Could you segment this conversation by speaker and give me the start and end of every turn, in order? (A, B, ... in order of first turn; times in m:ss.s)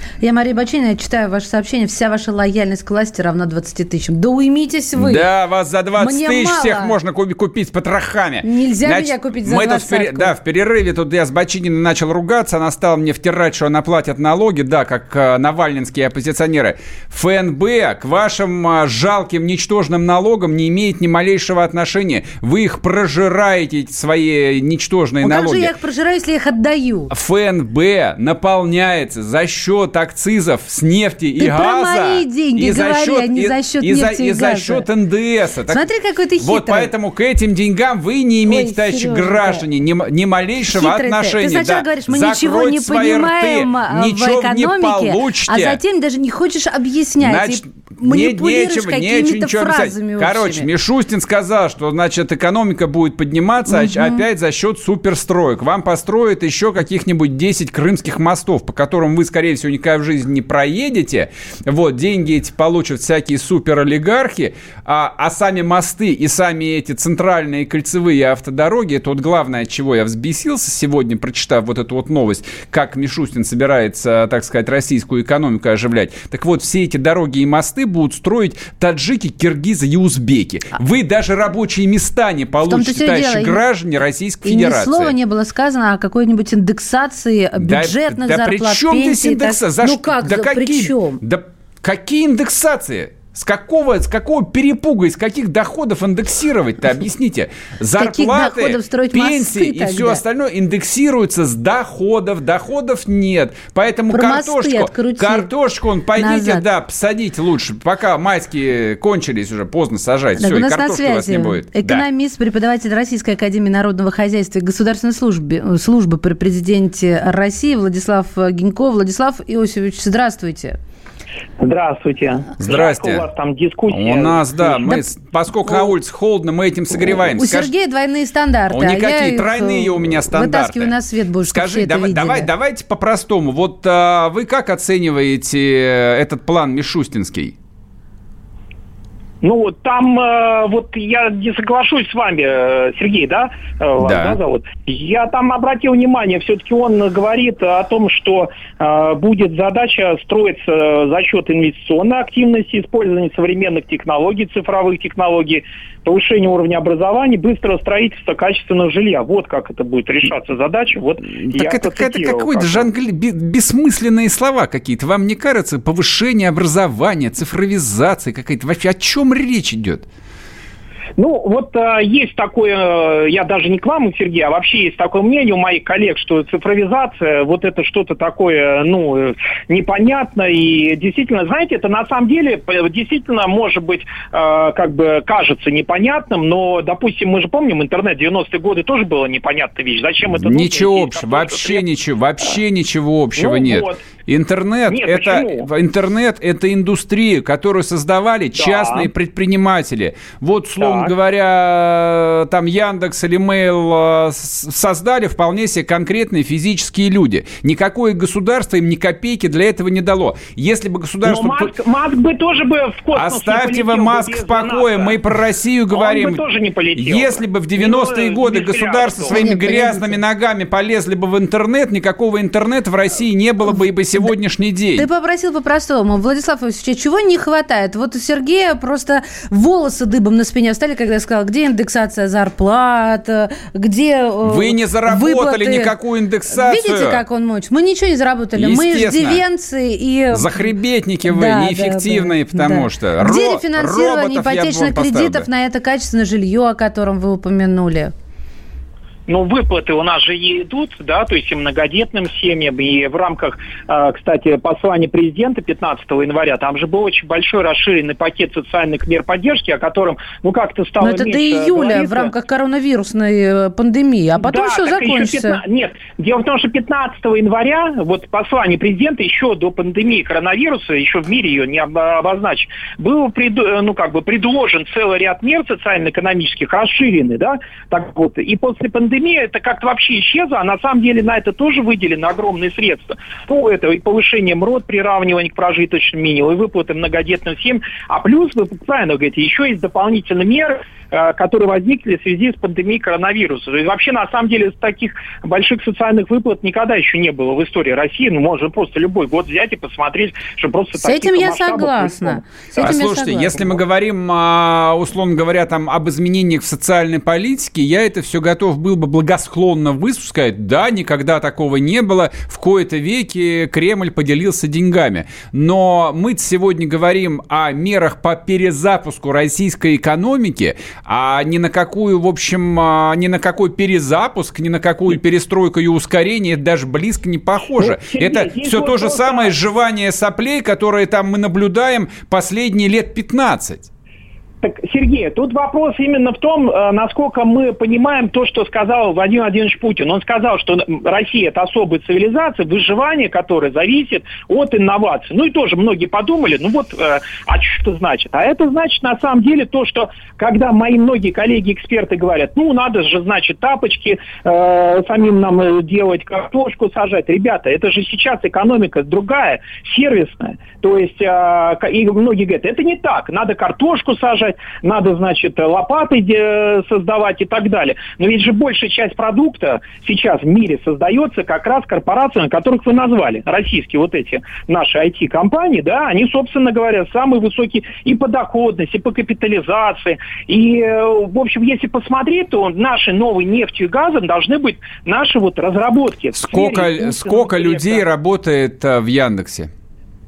0:00.2-0:05.2 A
0:05.0-0:25.7 B
0:06.0-0:07.0 A
0:08.4-0:10.3 A
0:25.2-0:27.1 A
0:27.1-0:35.9 B
0:31.4-0:34.8 A
0:35.7-0:36.9 A
0:36.4-0:45.8 B
0:38.5-0:39.6 A
0:40.7-0:50.7 A
0:47.2-1:25.2 B
0:53.7-0:54.2 A
1:22.7-1:23.6 A
1:24.4-1:31.2 A
1:27.6-1:52.0 B
1:38.0-1:40.2 A
1:44.1-1:45.5 A
1:46.2-1:46.6 A
1:50.4-2:00.8 A
2:01.6-2:04.9 C
2:02.6-2:03.3 B
2:03.9-2:07.7 B
2:07.2-2:12.5 A
2:08.7-2:10.9 B
2:11.5-2:17.6 B
2:19.4-2:42.9 C
2:24.0-2:24.4 B
2:41.4-2:50.0 B
2:51.2-3:11.8 C
3:10.4-3:31.7 B
3:13.4-3:14.0 C
3:14.9-3:15.7 C
3:18.6-3:19.1 C
3:20.8-3:21.1 C
3:31.2-3:35.2 C
3:33.1-3:36.4 B
3:35.9-3:39.4 C
3:37.0-3:45.1 B
3:39.3-3:40.2 A
3:45.0-3:55.9 A
3:54.4-3:57.2 B
3:56.5-4:00.7 A
3:58.6-3:59.4 B
4:00.3-4:05.5 B
4:01.3-4:08.1 A
4:09.3-4:22.3 C
4:21.0-4:25.6 A
4:24.4-5:03.0 C
5:01.0-5:03.8 A
5:02.8-5:33.9 B
5:27.8-5:29.5 C
5:34.6-6:28.1 C
6:26.4-6:29.7 B